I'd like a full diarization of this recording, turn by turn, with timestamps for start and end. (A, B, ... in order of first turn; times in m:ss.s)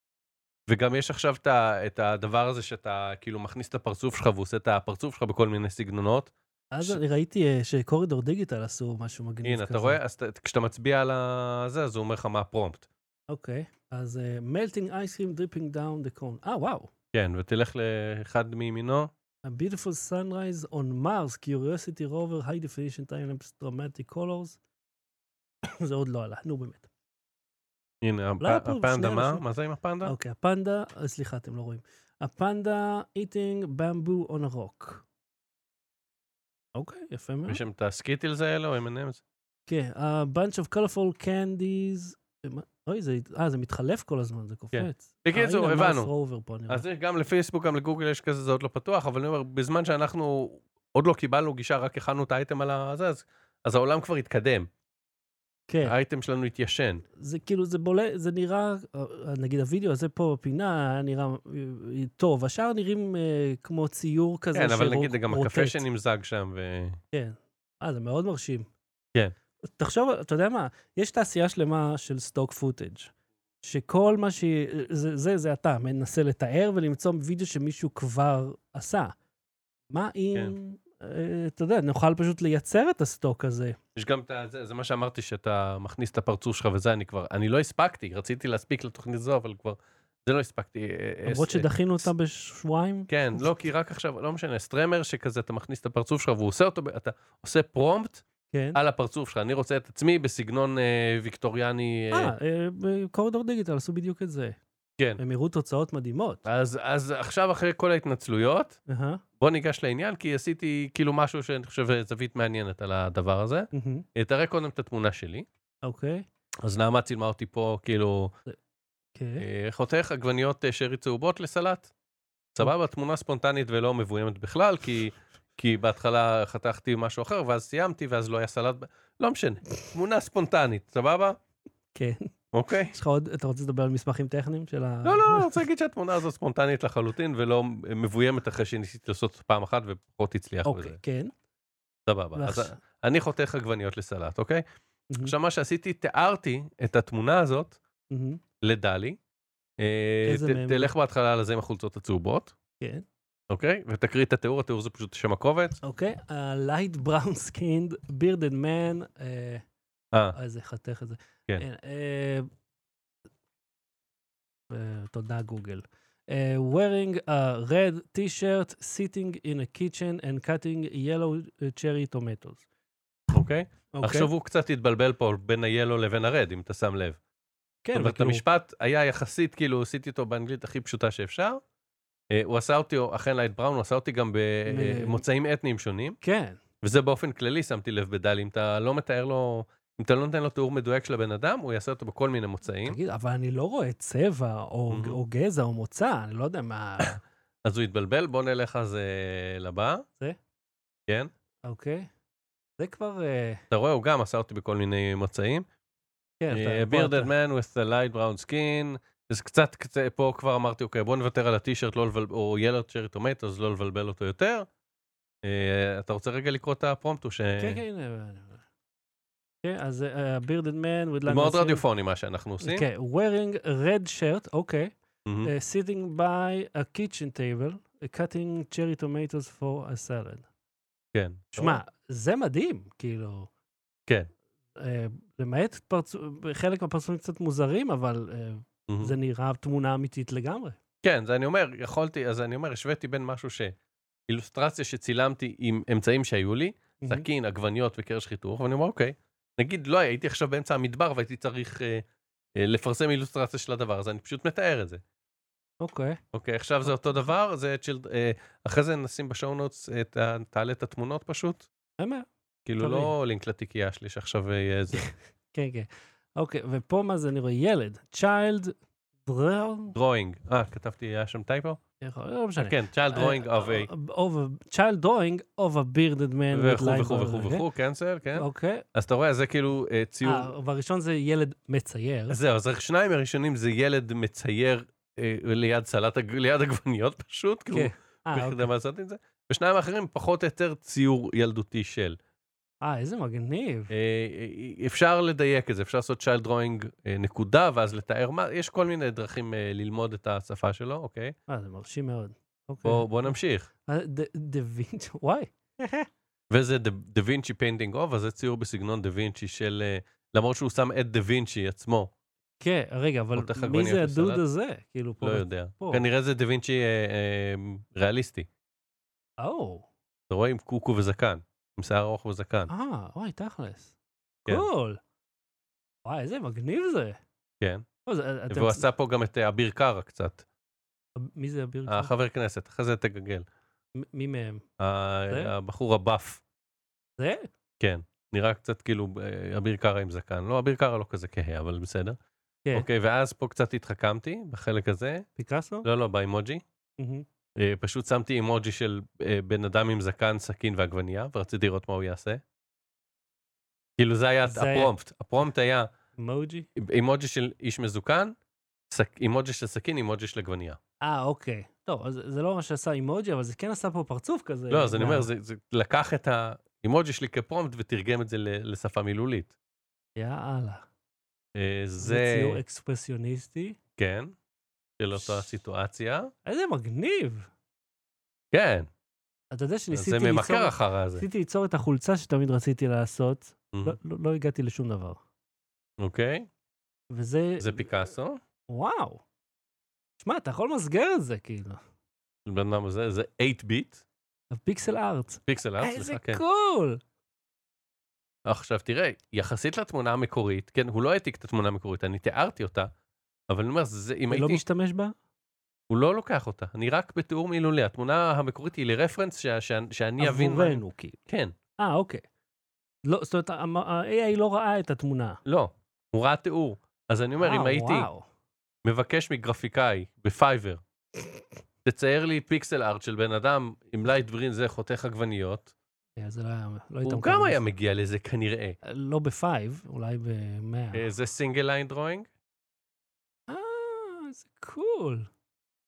0:00.7-0:07.0 A
0:06.7-0:10.0 B
0:09.4-0:12.9 A
0:13.3-0:16.9 B
0:17.1-0:19.1 A
0:19.4-0:24.6 B
0:25.6-0:26.9 B
0:28.0-0:30.1 A
0:28.4-0:29.4 B
0:30.0-0:35.0 B
0:36.7-0:37.6 B
0:37.5-0:39.2 A
0:39.7-0:46.8 B
0:44.7-0:46.1 A
0:46.7-0:54.7 A
0:55.7-0:55.9 B
0:55.8-0:57.0 A
0:57.2-1:05.8 B
1:04.5-1:07.0 A
1:07.1-1:08.7 B
1:09.6-1:19.1 B
1:19.9-1:23.8 B
1:23.9-1:32.1 A
1:31.2-1:33.4 B
1:33.1-1:42.3 A
1:38.5-1:38.8 B
1:42.1-1:44.6 B
1:45.2-1:46.4 B
1:46.4-1:48.8 A
1:48.9-1:49.2 B
1:49.4-1:55.5 A
1:53.7-1:54.0 B
1:55.8-1:56.2 B
1:56.6-1:58.3 A
1:59.1-1:59.4 B
1:59.4-2:01.9 A
2:02.5-2:11.4 A
2:11.9-2:12.3 B
2:12.5-2:12.9 A
2:12.9-2:15.5 B
2:15.0-2:21.0 A
2:20.6-2:21.3 B
2:22.1-2:24.6 A
2:22.3-2:22.8 B
2:25.2-2:27.8 A
2:28.1-2:28.4 B
2:28.6-2:29.2 A
2:29.8-2:32.5 A
2:30.2-2:30.9 B
2:32.8-2:33.0 B
2:33.5-2:35.8 A
2:35.8-2:39.6 B
2:40.3-2:42.5 B
2:44.7-2:52.6 B
2:53.3-2:57.2 A
2:53.9-2:54.3 B
2:57.8-2:58.4 B
2:57.9-3:01.6 A
3:02.3-3:06.2 A
3:04.7-3:05.2 B
3:06.2-3:06.6 B
3:06.8-3:13.0 A
3:12.8-3:17.1 B
3:14.9-3:15.2 A
3:17.0-3:20.0 A
3:21.6-3:22.1 B
3:22.8-3:23.6 B
3:23.7-3:25.6 A
3:26.4-3:27.3 B
3:26.5-3:34.7 A
3:35.4-3:37.8 A
3:37.6-3:38.6 B
3:39.6-3:41.8 B
3:41.3-3:42.8 A
3:42.6-3:50.5 B
3:45.2-3:45.5 A
3:51.1-3:51.8 A
3:51.6-3:53.5 B
3:54.8-4:00.8 B
3:58.9-3:59.1 A
4:01.0-4:03.8 A
4:04.3-4:12.0 A
4:07.0-4:07.2 B
4:12.5-4:15.0 A
4:15.8-4:16.2 B
4:16.3-4:21.7 A
4:16.8-4:17.2 B
4:22.0-4:22.3 B
4:22.6-4:25.0 A
4:22.8-4:23.1 B
4:24.9-4:30.0 B
4:29.9-4:31.8 A
4:32.0-4:37.6 B
4:32.6-4:33.9 A
4:36.5-4:40.5 A
4:38.3-4:38.8 B
4:40.2-4:42.4 B
4:42.3-4:52.2 A
4:47.7-4:48.7 B
4:52.8-4:53.9 B
4:53.9-5:01.3 A
5:01.5-5:03.3 B
5:02.8-5:03.7 A
5:03.8-5:06.1 B
5:06.5-5:12.1 A
5:12.6-5:16.0 B
5:13.3-5:14.4 A
5:15.2-5:18.5 A
5:19.4-5:19.9 B
5:20.3-5:22.7 A
5:22.7-5:23.9 B
5:24.4-5:25.0 B
5:26.0-5:27.2 B
5:27.6-5:27.8 A
5:28.0-5:28.9 B
5:28.5-5:30.4 A
5:31.2-5:32.1 B
5:31.9-5:33.5 A
5:34.0-5:34.6 B
5:34.8-5:36.4 A
5:35.3-5:35.5 B
5:37.2-5:37.5 B
5:37.8-5:42.2 A
5:42.7-5:45.3 A
5:45.4-5:45.9 B
5:45.8-5:46.6 A
5:47.0-5:47.2 B
5:47.6-5:52.4 A
5:54.0-5:55.9 A
5:54.4-5:54.9 B
5:56.2-5:56.7 B
5:56.8-5:58.4 A
5:58.9-6:00.8 A
6:01.0-6:05.3 B
6:04.7-6:09.5 A
6:10.2-6:10.9 B
6:11.5-6:12.6 A
6:12.0-6:13.8 B
6:14.0-6:14.3 A
6:15.0-6:16.3 A
6:15.2-6:15.4 B
6:16.4-6:17.5 B
6:18.5-6:18.9 A
6:19.5-6:25.2 B
6:19.9-6:21.2 A
6:26.0-6:26.5 A
6:27.1-6:27.9 B
6:27.6-6:28.4 A
6:28.7-6:29.2 B
6:30.2-6:31.8 B
6:32.4-6:34.0 A
6:34.5-6:37.0 B
6:35.5-6:36.4 A
6:38.4-6:42.9 A
6:43.5-6:44.6 A
6:44.3-6:45.1 B
6:45.9-6:51.5 A
6:50.2-6:51.2 B
6:51.8-6:52.2 B
6:53.0-6:55.4 B
6:55.4-6:58.1 A
6:57.4-6:58.2 B
6:58.8-7:00.8 A
7:01.8-7:05.7 A
7:06.2-7:07.6 B
7:07.0-7:08.8 A
7:08.8-7:11.0 B
7:10.9-7:12.3 A
7:13.5-7:15.3 B